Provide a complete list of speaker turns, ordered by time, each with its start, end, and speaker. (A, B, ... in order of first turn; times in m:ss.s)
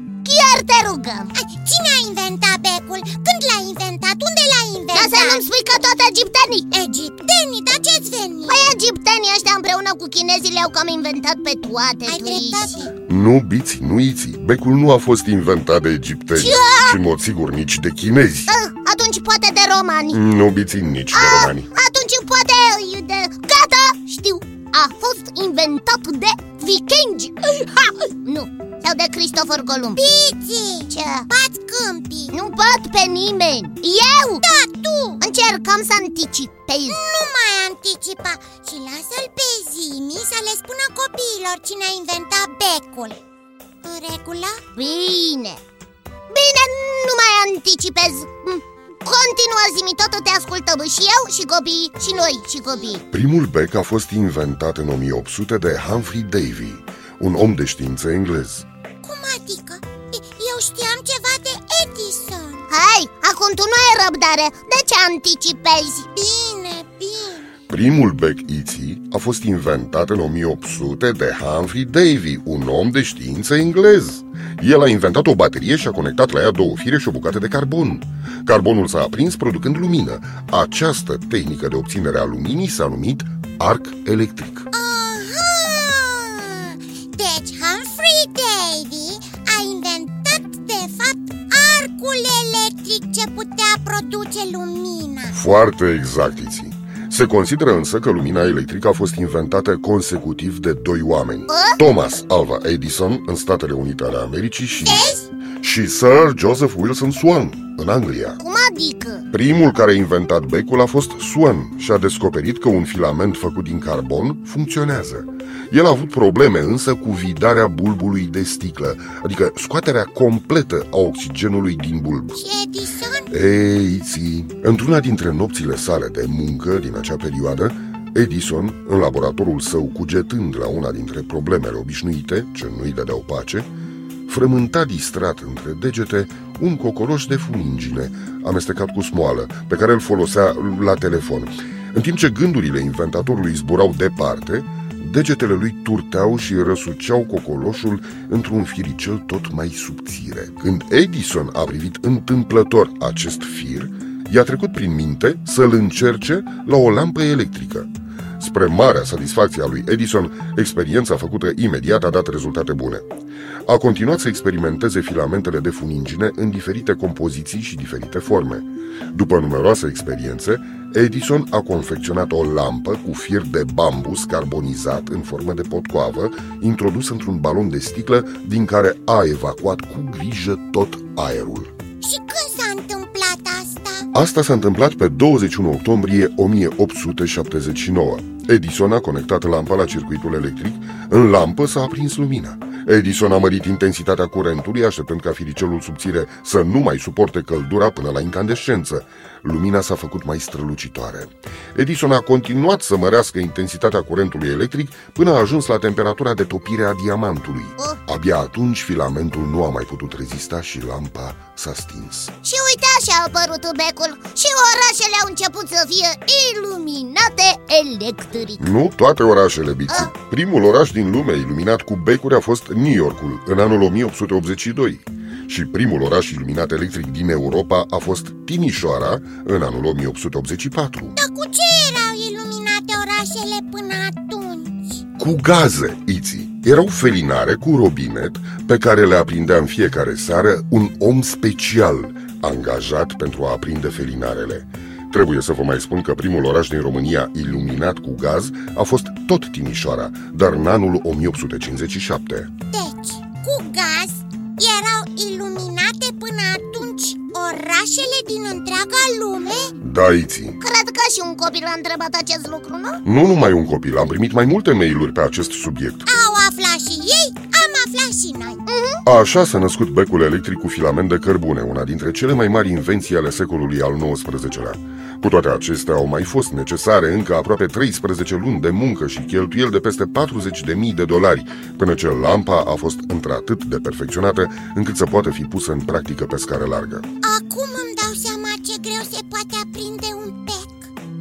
0:00.2-0:01.3 A
0:01.3-0:05.4 B
0:04.9-0:06.7 A
0:06.7-0:08.7 B
0:08.5-0:12.7 A
0:12.0-0:12.9 B
0:13.1-0:18.5 C
0:16.3-0:17.0 A
0:18.5-0:20.2 A
0:20.1-0:21.7 C
0:21.1-0:30.0 A
0:30.0-0:32.4 B
0:30.9-0:31.3 A
0:32.3-0:34.4 A
0:34.4-0:35.2 B
0:35.2-0:37.0 A
0:36.9-0:43.2 B
0:43.8-0:44.6 B
0:44.7-0:45.6 A
0:46.3-0:53.0 A
0:53.1-0:58.7 C
0:59.0-1:02.6 B
1:02.7-1:06.1 A
1:06.1-1:07.4 B
1:07.7-1:24.7 C
1:24.7-1:35.4 B
1:35.3-1:48.4 C
1:41.5-1:41.8 A
1:44.8-1:45.3 B
1:48.4-1:49.2 A
1:49.3-2:02.4 C
2:02.4-2:03.3 B
2:03.3-2:13.7 C
2:14.3-2:43.1 C
2:43.6-3:01.7 C
3:02.0-3:04.1 B
3:04.1-3:32.3 C
3:32.4-3:38.6 A
3:38.6-3:51.2 C
3:51.2-3:55.0 B
3:55.2-4:12.5 C
4:12.7-4:19.7 B
4:19.8-4:20.6 C
4:20.6-4:23.0 A
4:23.0-4:26.1 C
4:26.0-4:28.6 B
4:28.6-4:29.0 A
4:29.0-4:47.0 C
4:47.2-4:50.9 B